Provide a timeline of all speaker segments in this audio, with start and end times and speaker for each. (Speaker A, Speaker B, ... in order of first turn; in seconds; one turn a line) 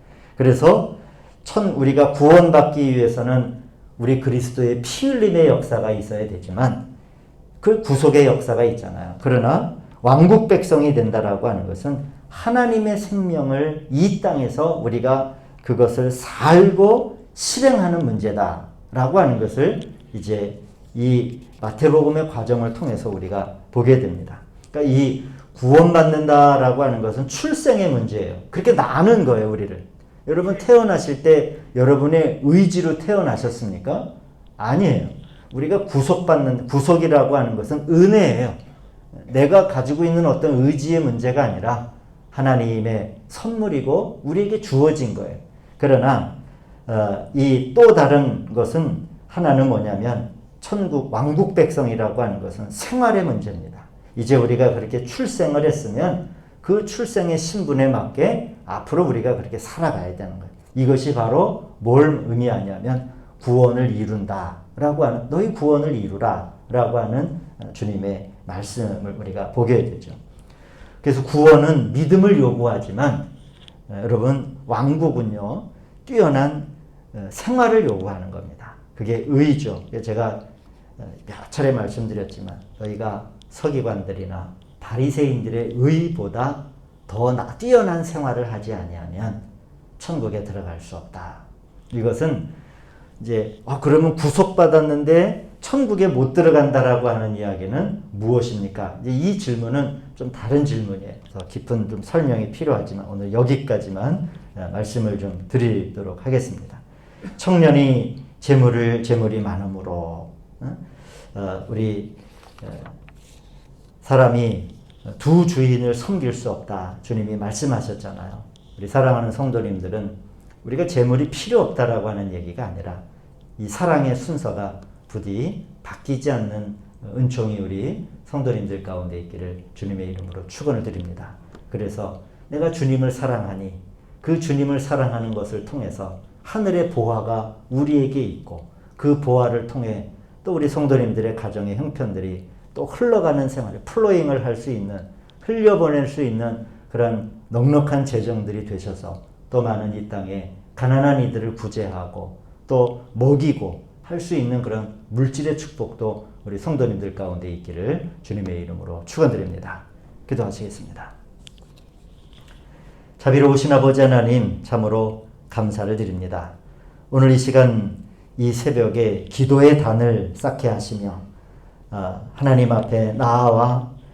Speaker A: 0.4-6.8
Speaker A: 7.6-38.6
Speaker A: 39.1-46.3
Speaker A: 46.9-70.2
Speaker A: 71.0-73.3
Speaker A: 73.9-80.4
Speaker A: 81.0-89.4
Speaker A: 90.0-92.5
Speaker A: 93.2-106.8
Speaker A: 107.4-110.8
Speaker A: 111.3-113.0
Speaker A: 114.0-123.0
Speaker A: 123.6-161.1
Speaker A: 163.2-166.5
Speaker A: 167.1-171.2
Speaker A: 171.9-173.9